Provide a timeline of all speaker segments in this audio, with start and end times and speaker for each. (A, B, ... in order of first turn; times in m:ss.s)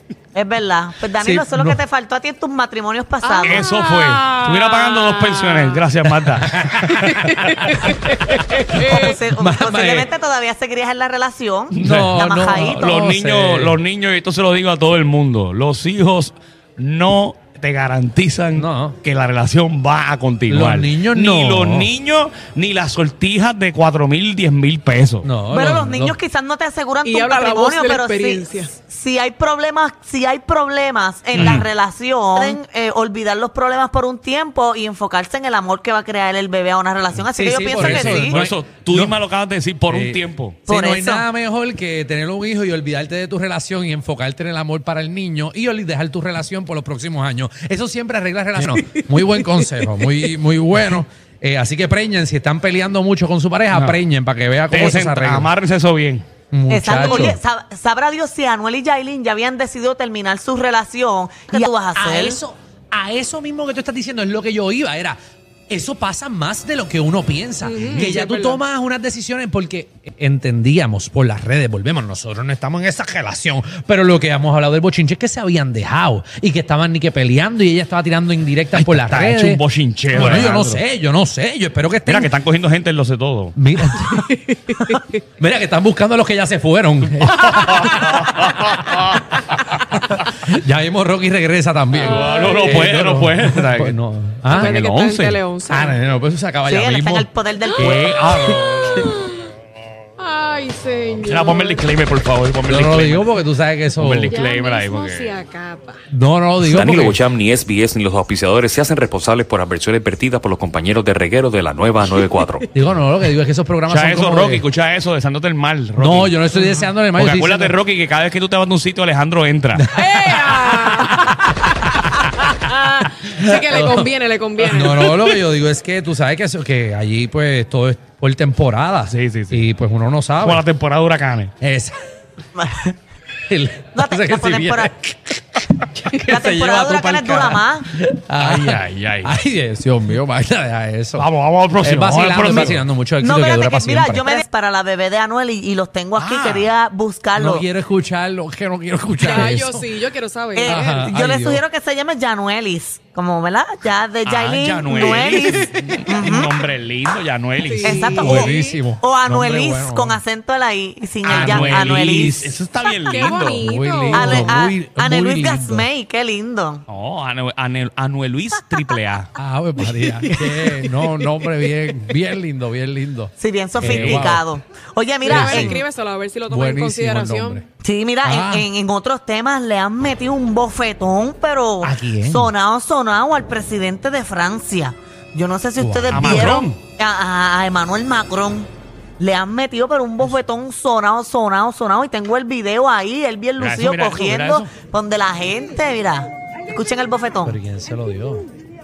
0:00.3-0:03.7 A
0:01.2-0:01.8 B
0:03.2-0:05.8 C
0:03.4-0:07.4 D
0:06.2-0:07.9 B
0:07.1-0:09.1 C
0:08.7-0:10.1 B
0:08.7-0:12.9 A
0:11.7-0:25.3 D
0:11.8-0:13.8 B
0:18.5-0:19.0 B
0:20.5-0:21.9 B
0:25.2-0:26.2 B
0:25.5-0:38.4 A
0:27.0-0:28.7 C
0:31.4-0:31.7 D
0:31.4-0:31.7 B
0:37.3-0:39.2 B
0:37.7-0:40.6 D
0:39.9-0:55.5 B
0:40.7-0:41.2 A
0:53.7-0:54.0 D
0:54.7-0:56.3 D
0:56.5-0:57.4 B
0:56.7-1:02.4 A
0:57.0-0:57.3 D
1:01.5-1:05.2 B
1:05.7-1:22.3 B
1:07.6-1:08.6 C
1:18.7-1:20.8 D
1:22.1-1:23.6 D
1:23.6-1:28.5 B
1:24.1-1:25.0 C
1:27.2-1:29.4 D
1:30.1-1:34.8 B
1:31.9-1:34.0 D
1:32.1-1:32.8 C
1:34.5-1:36.0 C
1:34.5-1:35.4 D
1:35.7-1:37.3 B
1:36.7-1:38.2 A
1:37.8-1:39.1 D
1:39.0-1:39.5 C
1:40.2-1:41.8 C
1:41.2-1:43.3 D
1:42.7-1:44.4 B
1:43.9-1:45.4 D
1:44.3-1:46.0 C
1:46.1-1:47.2 B
1:46.7-1:52.4 E
1:52.7-1:54.6 B
1:53.9-1:59.9 D
1:56.0-1:57.8 B
1:59.7-2:01.4 B
1:59.9-2:05.3 C
2:03.3-2:10.6 B
2:09.1-2:09.6 D
2:10.4-2:11.5 D
2:11.6-2:12.0 B
2:12.6-2:12.9 A
2:13.5-2:24.3 B
2:14.0-2:14.9 A
2:16.3-2:17.9 A
2:18.4-2:19.4 D
2:21.2-2:22.9 D
2:22.5-2:27.6 A
2:26.2-2:26.7 D
2:27.4-2:29.9 B
2:29.2-2:31.0 C
2:30.6-2:36.5 A
2:30.6-2:31.6 B
2:34.2-2:37.9 D
2:34.9-2:35.8 C
2:37.6-2:38.8 C
2:37.8-2:40.2 B
2:37.8-2:42.4 A
2:41.2-2:43.6 D
2:41.2-2:42.5 B
2:43.1-2:44.6 C
2:43.6-2:45.9 B
2:44.1-2:46.8 A
2:46.9-2:49.3 D
2:49.4-2:54.5 B
2:50.0-2:51.1 C
2:53.4-2:55.8 A
2:53.8-2:54.3 D
2:55.2-2:57.6 C
2:55.3-2:55.8 B
2:56.5-2:57.6 B
2:57.8-3:08.7 A
2:58.2-2:58.7 B
3:01.8-3:02.5 B
3:05.8-3:06.7 B
3:06.1-3:06.8 D
3:09.2-3:17.6 A
3:13.6-3:14.7 D
3:17.4-3:18.4 B